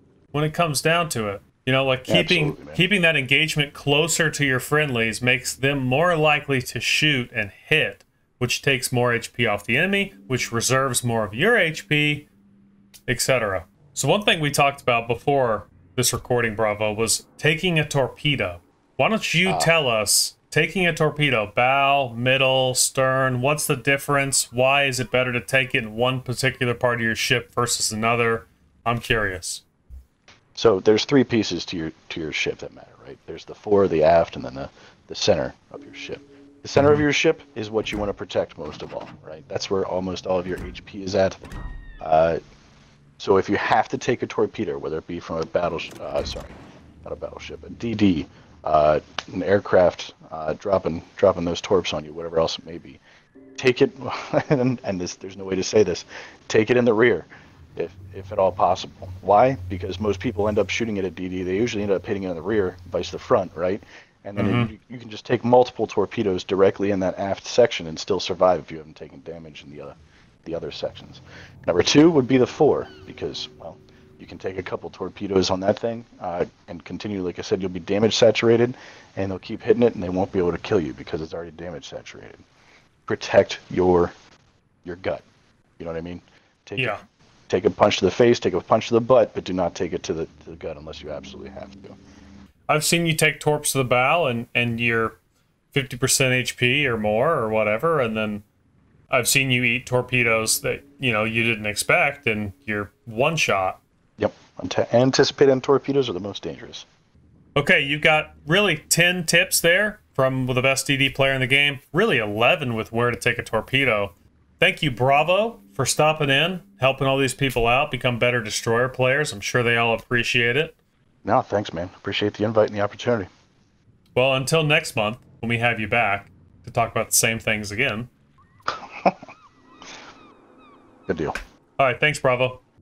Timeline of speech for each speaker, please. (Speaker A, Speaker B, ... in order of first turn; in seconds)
Speaker A: 0.3-12.3, 13.1-29.6, 64.4-64.7, 92.7-95.2, 95.7-98.4, 99.1-103.8, 107.6-120.8, 124.2-128.1, 131.8-132.6
Speaker B: 2.1-2.8, 19.4-19.7, 30.6-41.4, 42.0-42.4, 43.2-53.0, 53.6-82.4, 83.1-84.1, 84.8-85.2, 85.8-92.0, 104.2-106.9, 121.2-123.3, 131.1-131.4